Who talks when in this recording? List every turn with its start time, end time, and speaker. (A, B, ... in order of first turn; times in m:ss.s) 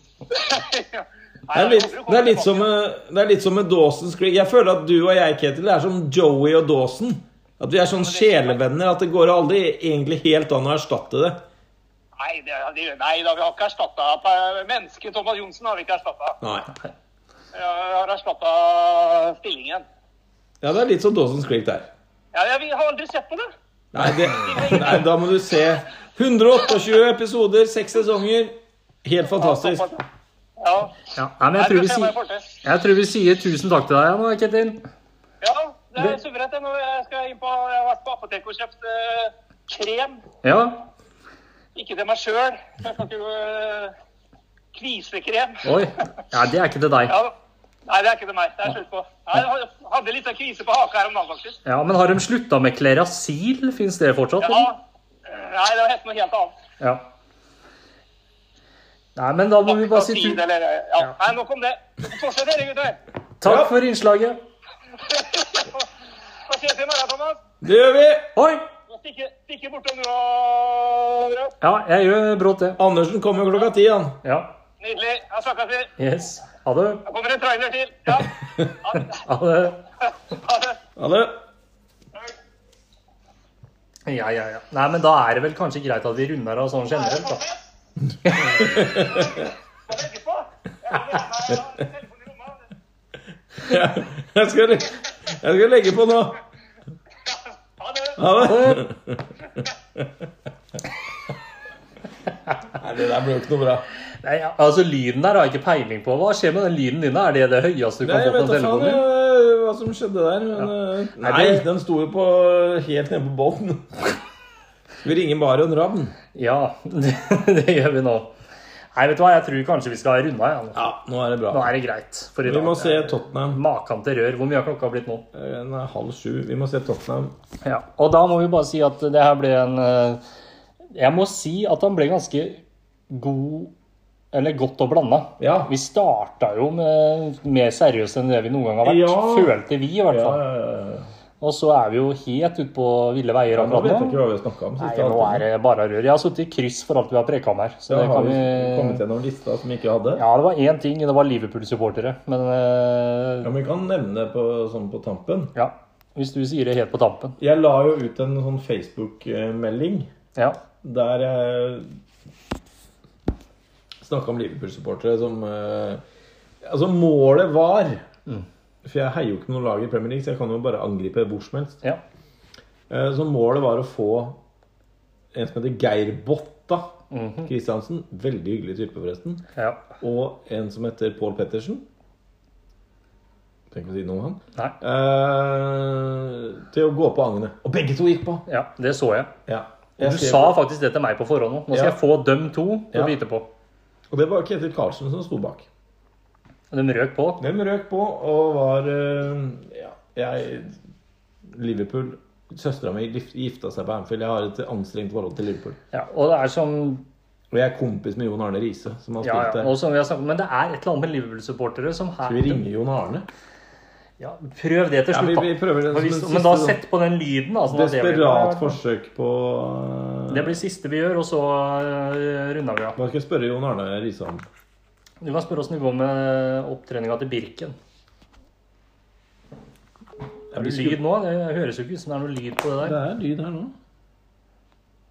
0:00.3-0:02.6 A
0:01.5-0:11.4 B
0:08.0-0:08.6 A
0:12.2-0:16.4 A
0:16.4-0:16.7 B
0:17.5-0:19.8 A
0:20.6-0:21.9 B
0:22.3-0:23.5 A
0:23.9-0:29.9 B
0:24.2-0:25.0 A
0:29.4-0:30.0 A
0:30.6-0:32.6 A
0:31.2-0:34.9 C
0:35.4-0:40.2 A
0:40.4-0:40.8 C
0:41.8-0:44.0 A
0:44.7-0:45.6 A
0:45.6-0:47.2 C
0:47.9-0:51.6 A
0:51.7-0:54.7 C
0:54.4-0:56.6 A
0:59.2-1:00.4 C
0:59.7-1:03.0 A
1:03.4-1:04.4 C
1:03.4-1:03.7 B
1:05.0-1:05.9 A
1:06.5-1:07.4 A
1:07.6-1:08.3 B
1:08.4-1:08.6 C
1:08.9-1:11.5 A
1:11.6-1:12.8 C
1:12.8-1:14.2 B
1:14.2-1:14.5 C
1:14.8-1:15.9 A
1:16.0-1:17.0 C
1:17.1-1:19.2 A
1:19.1-1:19.8 C
1:20.3-1:20.8 A
1:21.0-1:21.4 B
1:24.1-1:27.5 C
1:28.2-1:28.7 C
1:28.6-1:29.5 B
1:29.2-1:32.6 A
1:33.5-1:36.4 B
1:37.8-1:38.2 A
1:38.2-1:40.1 B
1:38.4-1:38.8 C
1:42.8-1:43.9 B
1:44.2-1:49.0 C
1:48.0-1:54.2 B
1:50.6-1:51.7 C
1:55.0-1:56.2 B
1:56.4-1:58.4 C
1:59.0-2:00.8 C
2:00.8-2:01.7 B
2:01.5-2:05.3 C
2:02.4-2:03.6 B
2:05.3-2:07.4 B
2:07.6-2:10.2 C
2:11.0-2:13.7 C
2:14.3-2:20.4 C
2:15.4-2:15.7 B
2:18.8-2:19.6 B
2:20.1-2:21.1 B
2:21.4-2:24.2 C
2:23.5-2:25.5 B
2:24.8-2:29.0 C
2:27.9-2:30.2 B
2:30.2-2:33.5 C
2:33.4-2:35.5 B
2:35.6-2:37.4 C
2:37.4-2:40.1 B
2:40.8-2:42.0 B
2:44.0-2:46.0 B
2:46.6-2:48.0 B
2:48.8-2:51.8 B
2:52.9-2:54.4 B
2:55.3-2:56.9 B
2:57.1-2:57.5 C
2:57.5-2:59.4 B
2:59.6-2:59.9 C
3:00.0-3:01.8 B
3:03.7-3:08.4 B
3:08.5-3:09.3 C
3:09.5-3:10.6 B
3:10.0-3:13.5 C
3:11.7-3:12.0 B
3:14.1-3:15.7 B
3:16.7-3:17.4 C
3:17.4-3:20.8 B
3:21.5-3:25.8 B
3:25.9-3:27.1 C
3:27.5-3:29.7 B
3:29.2-3:32.6 C
3:32.2-3:33.3 B
3:34.2-3:38.8 C
3:35.1-3:36.8 B
3:37.7-3:40.6 B
3:40.3-3:43.0 C
3:43.0-3:44.4 B
3:45.2-3:47.8 C
3:50.5-3:51.0 B
3:50.5-3:53.0 C
3:52.8-3:53.7 B